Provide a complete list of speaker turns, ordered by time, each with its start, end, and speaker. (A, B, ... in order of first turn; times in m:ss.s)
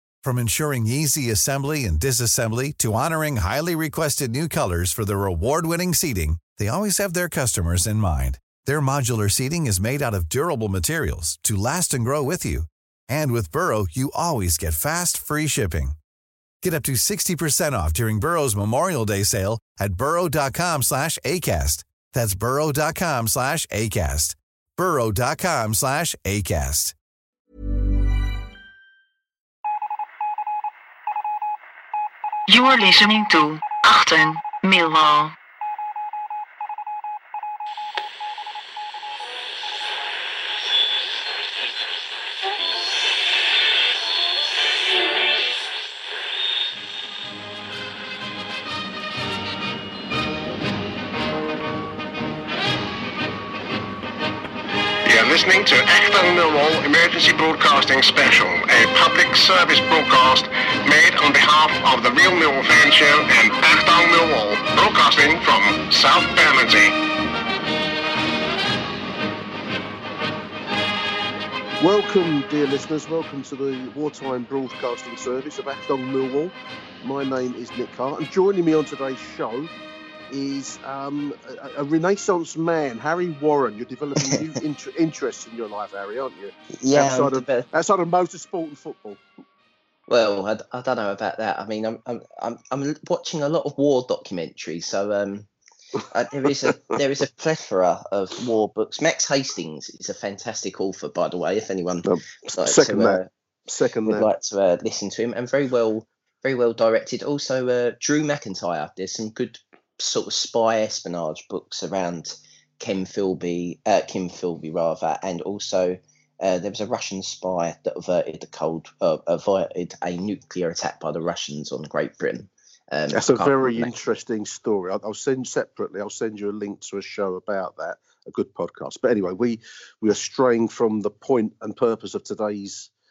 0:00.2-0:16.0 A
0:16.6-0:26.9 A
0:32.5-0:35.3 B
0:55.0-1:06.9 C
1:11.8-1:19.7 D
1:20.3-1:29.2 D
1:26.8-1:27.6 E
1:30.1-1:35.5 E
1:36.1-1:43.3 E
1:36.4-1:36.9 D
1:42.0-1:44.3 D
1:44.0-2:03.9 E
2:03.1-2:12.9 D